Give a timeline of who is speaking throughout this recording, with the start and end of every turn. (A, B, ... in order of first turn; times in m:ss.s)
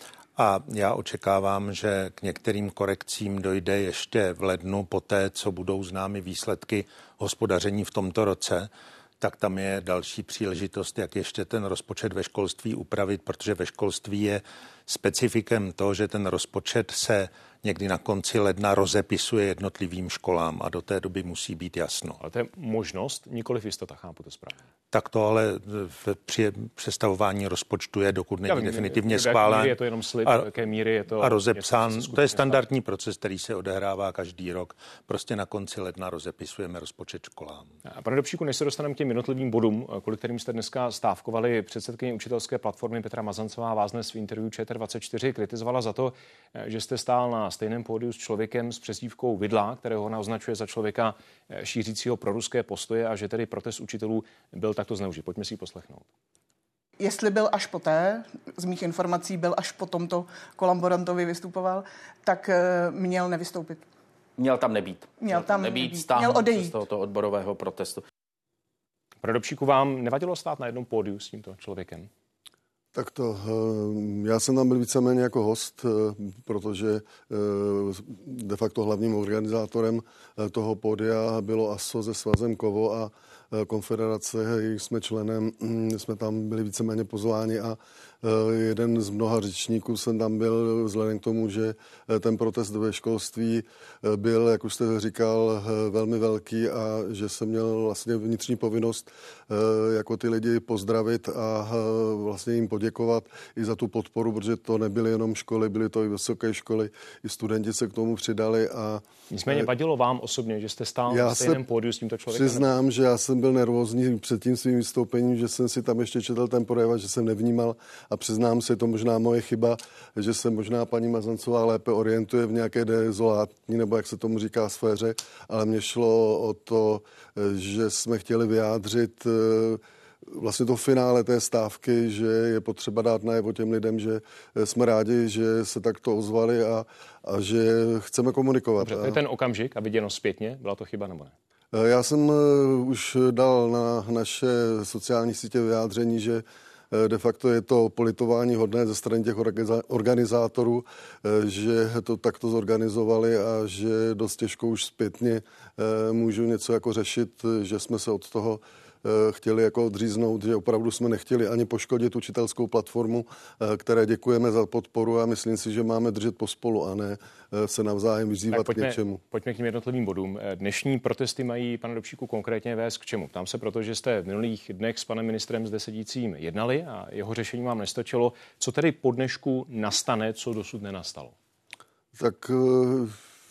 0:00.4-0:22.2 A
0:22.2-0:24.6 B
0:24.9-0:30.5 A
0:28.5-0:32.6 B
0:31.1-0:37.8 A
0:37.8-0:56.1 B
0:57.0-1:03.8 C
1:04.4-1:08.0 D
1:05.2-1:06.8 C
1:09.2-1:12.1 B
1:12.9-1:49.7 E
1:49.3-1:52.6 B
1:51.1-1:51.6 E
1:52.3-2:19.2 E
2:18.8-2:21.3 B
2:21.7-2:49.2 E
2:48.5-3:01.3 B
3:02.2-3:03.2 E